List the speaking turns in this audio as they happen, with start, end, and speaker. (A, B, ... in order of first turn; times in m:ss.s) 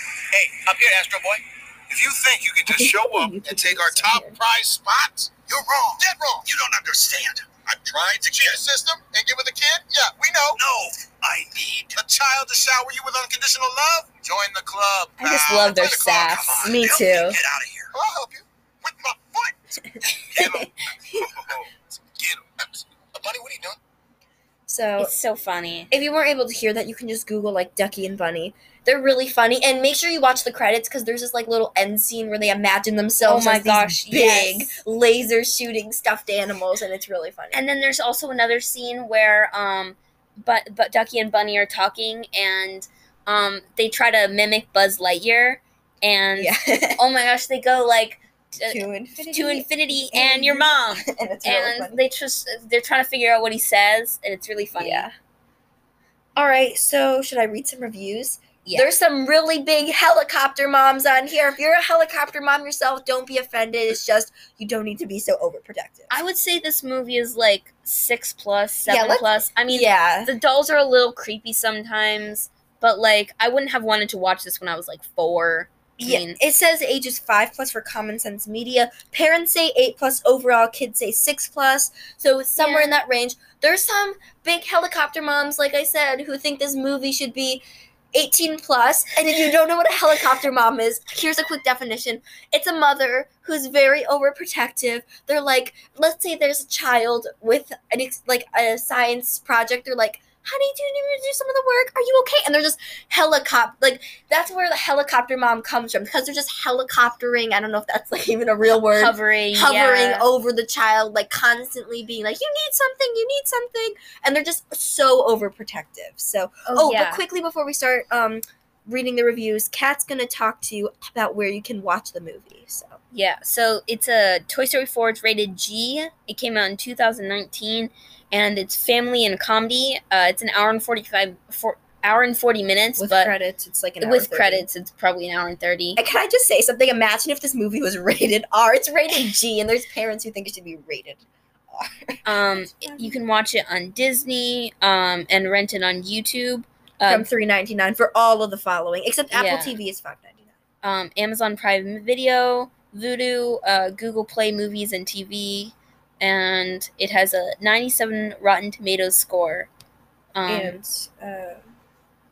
0:00.3-0:23.8 A
0:02.7-0:04.4 B
0:15.2-0:16.8 C
0:16.6-0:17.4 B
0:20.4-0:21.3 B
0:24.7-0:25.1 B
0:25.0-0:25.9 C
0:25.9-0:37.6 B
0:33.2-0:34.8 C
0:37.5-0:55.1 C
0:46.4-0:47.0 B
0:48.7-0:52.0 B
0:54.8-0:55.1 B
0:56.4-1:06.2 B
0:58.6-0:58.9 C
1:06.1-1:16.4 C
1:08.9-1:10.3 B
1:16.0-2:03.0 B
1:22.6-1:22.9 C
1:48.8-1:50.3 C
1:56.7-1:57.2 C
2:03.1-2:13.3 C
2:13.0-2:14.7 B
2:14.0-2:16.0 C
2:16.0-2:23.2 B
2:22.2-2:27.3 C
2:27.1-2:30.5 B
2:29.3-2:29.8 C
2:30.8-2:39.7 C
2:40.3-2:40.8 C
2:40.5-2:41.6 B